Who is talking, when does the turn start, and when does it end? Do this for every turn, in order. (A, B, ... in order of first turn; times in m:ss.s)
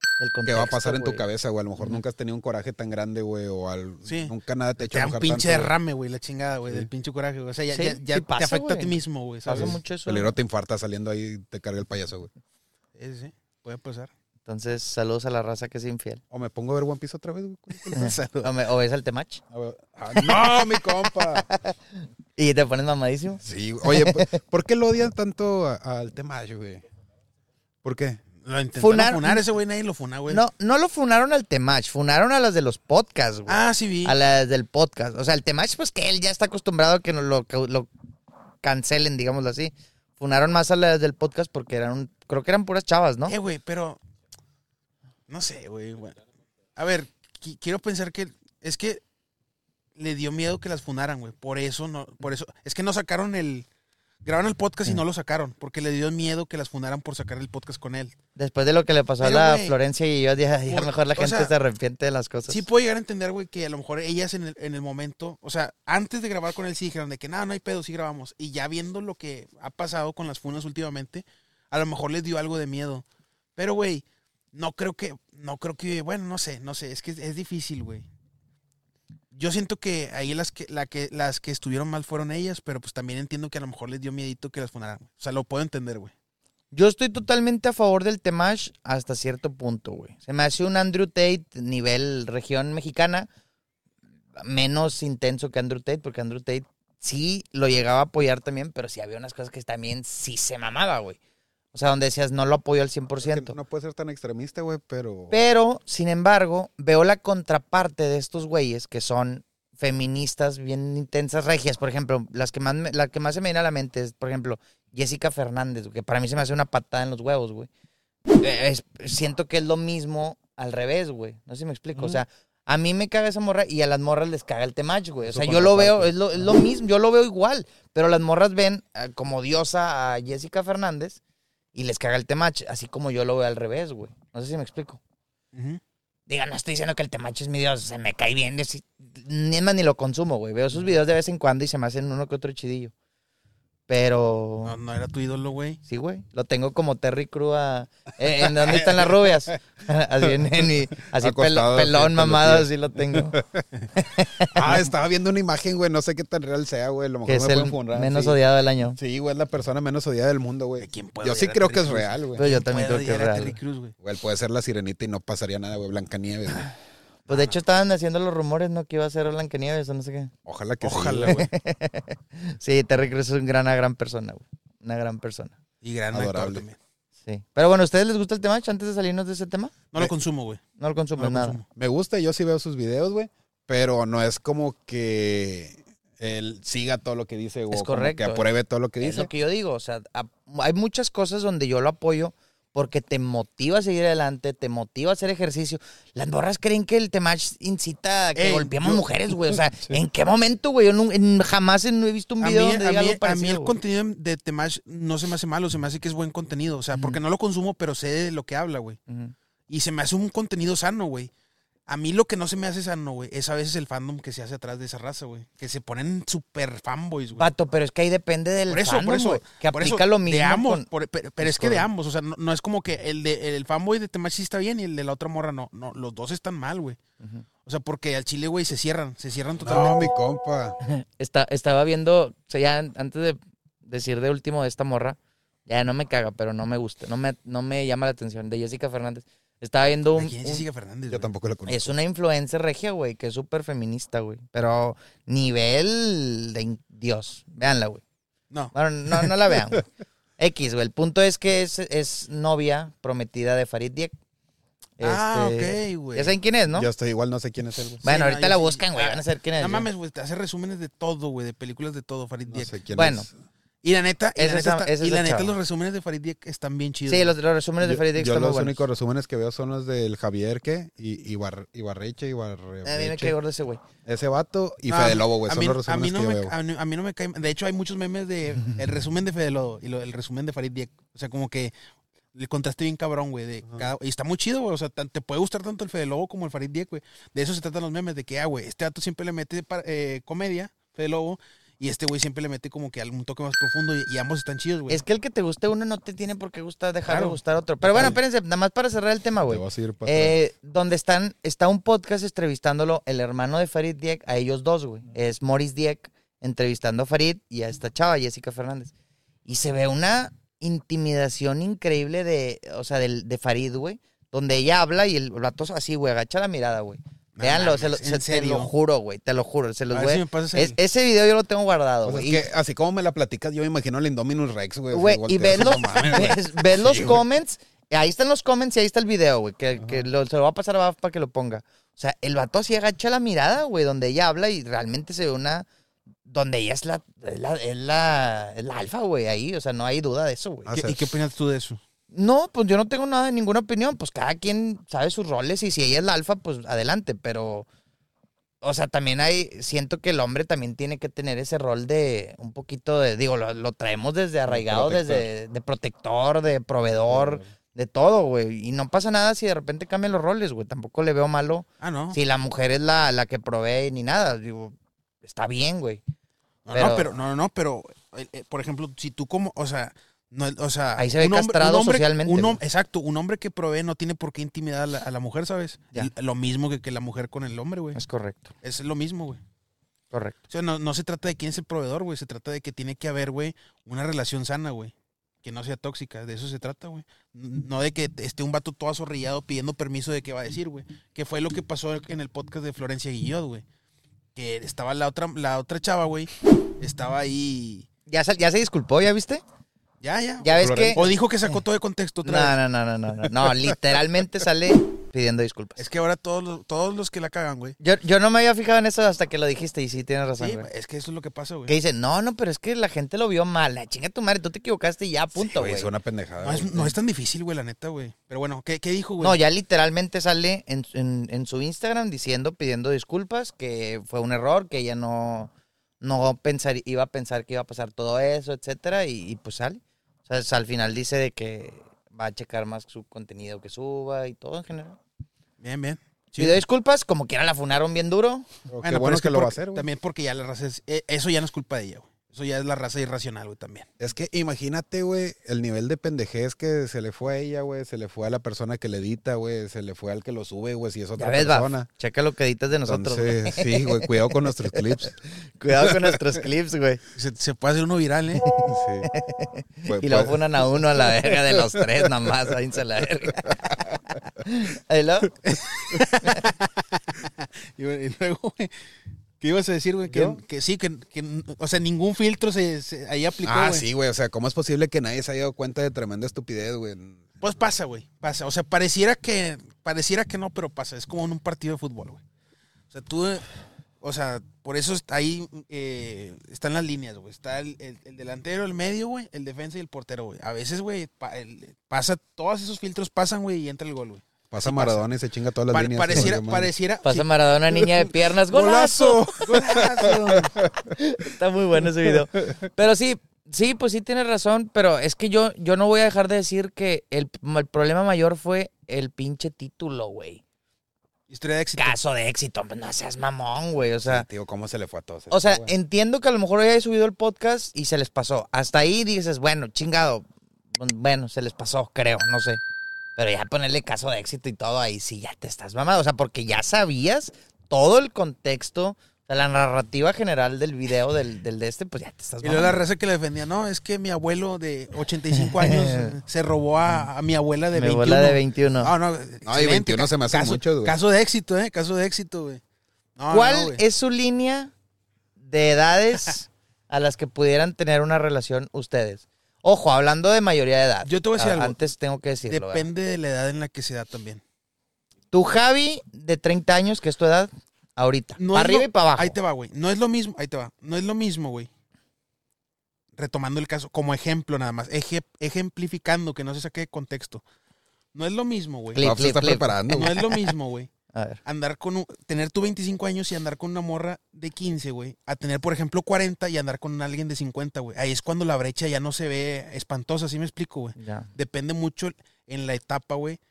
0:00.2-0:01.2 A
0:00.4-0:05.7 B
0:04.0-0:09.8 C
0:07.7-0:10.3 A
0:09.5-0:12.3 B
0:13.0-0:14.1 C
0:14.5-0:16.2 A
0:16.3-0:18.1 B
0:17.8-0:18.5 C
0:18.0-0:19.4 A
0:19.5-0:21.5 B
0:20.1-0:24.4 A
0:23.4-0:26.8 B
0:27.8-0:28.2 B
0:28.4-0:30.4 C
0:28.8-0:29.4 A
0:30.3-0:37.9 A
0:33.5-0:34.2 C
0:38.6-0:43.3 A
0:43.3-0:44.0 C
0:45.3-0:46.2 C
0:46.8-0:49.0 C
0:50.0-0:53.7 C
0:54.2-0:58.2 C
0:58.4-1:02.6 A
0:59.2-0:59.8 C
1:00.7-1:01.5 C
1:02.5-1:13.0 C
1:13.6-1:18.1 C
1:19.3-1:26.1 C
1:26.7-1:33.3 A
1:34.4-1:41.2 A
1:41.7-1:43.6 A
1:43.2-1:45.4 B
1:45.3-1:57.7 A
1:58.4-2:11.2 A
2:02.0-2:02.2 B
2:05.3-2:06.5 B
2:11.7-2:15.0 A
2:15.5-2:15.8 C
2:16.3-2:22.9 A
2:23.9-2:24.8 A
2:24.6-2:25.8 C
2:25.9-2:33.4 A
2:31.0-2:33.6 B
2:33.9-2:34.8 A
2:34.4-2:38.4 B
2:37.3-2:39.0 A
2:39.0-2:42.4 B
2:40.8-2:44.0 C
2:42.4-2:43.6 A
2:44.0-2:46.7 B
2:47.3-2:47.6 C
2:47.3-2:50.3 A
2:50.5-2:51.4 B
2:50.8-2:51.5 C
2:51.2-2:55.6 A
2:55.8-2:56.8 C
2:56.1-2:56.6 B
2:57.2-2:59.8 A
2:59.9-3:00.6 C
3:00.8-3:01.6 A
3:01.2-3:01.7 C
3:01.8-3:09.3 B
3:07.7-3:08.5 A
3:09.0-3:23.7 A
3:18.4-3:19.1 C
3:22.4-3:29.0 C
3:26.9-3:27.2 A
3:29.7-3:31.3 C
3:31.9-3:37.5 C
3:37.4-3:40.9 A
3:38.7-3:47.0 C
3:41.4-3:41.9 A
3:47.2-3:47.5 A
3:47.6-3:50.1 C
3:49.6-3:50.8 B
3:50.8-4:00.6 A
4:00.2-4:01.3 C
4:01.1-4:01.9 B
4:01.7-4:08.0 A
4:08.7-4:09.9 A
4:10.4-4:14.1 A
4:15.0-4:16.9 A
4:15.0-4:16.4 C
4:16.7-4:18.1 B
4:18.0-4:19.9 A
4:18.0-4:22.8 C
4:22.5-4:23.3 B
4:22.9-4:23.3 A
4:23.8-4:27.3 C
4:24.4-4:25.5 A
4:27.1-4:28.8 A
4:27.8-4:33.3 B
4:32.8-4:33.8 A
4:34.0-4:36.5 B
4:34.9-4:41.7 C
4:42.3-4:55.0 C
4:54.9-5:08.9 A
4:57.1-4:57.4 C
4:59.5-5:00.4 B
5:09.5-5:22.5 A
5:17.4-5:18.7 C
5:19.9-5:20.8 C
5:22.0-5:27.2 B
5:24.9-5:35.7 A
5:25.5-5:26.5 C
5:29.8-5:30.0 B
5:36.3-5:40.8 A
5:40.7-5:41.1 B
5:40.7-5:41.8 C
5:42.1-5:47.7 A
5:48.6-6:06.0 A
5:54.5-5:55.3 B
5:57.1-5:57.5 B
6:01.8-6:02.2 C
6:06.6-6:18.0 C
6:06.7-6:07.1 A
6:11.0-6:12.6 A
6:18.0-6:18.5 A
6:18.6-6:19.4 C
6:20.5-6:33.6 C
6:34.4-6:37.9 C
6:38.1-6:39.4 A
6:40.0-6:42.6 C
6:40.4-6:41.0 A
6:40.6-6:41.2 B
6:42.2-6:45.8 A
6:45.8-6:47.8 C
6:47.8-6:50.7 A
6:50.4-6:51.8 C
6:51.7-6:55.9 A
6:55.5-6:56.9 B
6:56.4-6:59.4 C
6:59.2-7:15.0 A
7:15.6-7:16.6 C
7:16.4-7:18.5 A
7:18.7-7:19.9 B
7:18.8-7:23.9 C
7:24.0-7:31.9 B
7:31.2-7:37.0 A
7:32.9-7:35.2 B
7:35.8-7:36.2 B
7:37.2-7:38.4 C
7:38.4-7:45.4 A
7:38.6-7:39.1 B
7:39.8-7:42.6 B
7:43.3-7:44.0 B
7:45.4-7:48.7 C
7:46.2-7:46.5 A
7:49.4-7:53.9 C
7:50.1-7:50.4 B
7:53.4-7:57.3 B
7:57.4-8:02.2 C
8:02.9-8:03.5 C
8:04.0-8:15.1 C
8:14.5-8:16.7 B
8:15.7-8:17.3 C
8:17.0-8:19.6 A
8:17.8-8:20.6 C
8:19.5-8:20.9 B
8:20.8-8:30.4 A
8:22.0-8:22.5 B
8:31.3-8:32.0 C
8:31.8-8:34.3 A
8:34.0-8:35.7 B
8:35.3-8:42.6 A
8:43.2-8:52.8 A
8:52.4-9:02.6 C
8:55.4-8:56.1 A
8:57.7-8:58.9 A
8:59.5-9:01.0 B
9:03.2-9:03.8 C
9:03.3-9:04.7 A
9:05.4-9:12.9 A
9:11.0-9:11.8 C
9:12.5-9:14.4 C
9:15.3-9:19.4 A
9:18.4-9:21.7 C
9:23.2-9:27.4 C
9:28.1-9:29.1 C
9:28.9-9:30.5 A
9:29.0-9:30.2 B
9:29.9-9:30.9 C
9:31.1-9:31.4 A
9:31.4-9:43.4 C
9:41.0-9:41.3 A